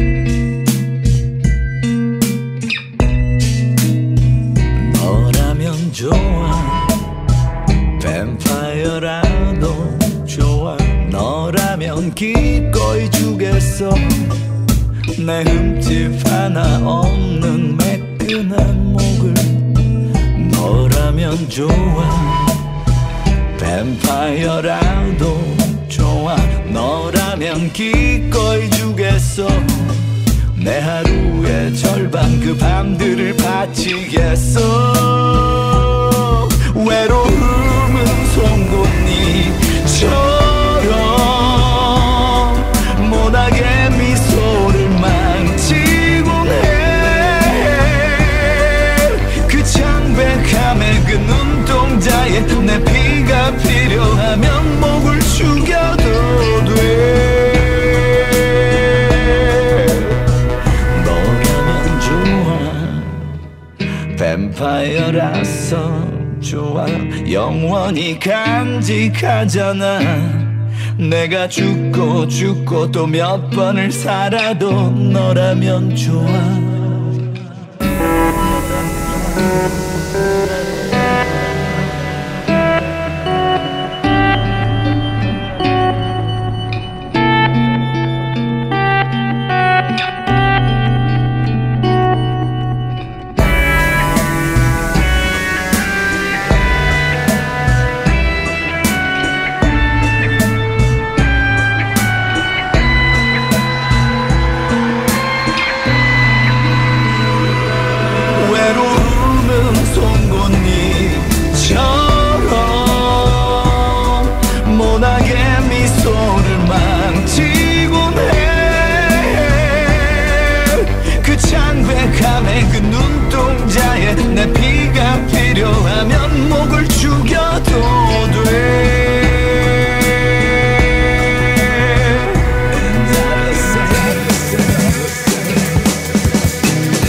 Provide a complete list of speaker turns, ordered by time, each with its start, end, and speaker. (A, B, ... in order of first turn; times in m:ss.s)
0:04.7-0:07.0 A
0:08.0-0:14.4 A
0:15.1-0:19.7 A
0:20.3-0:22.6 A
0:23.5-1:00.2 A
1:00.9-1:03.3 A
1:04.1-1:17.3 A
1:48.3-2:15.7 A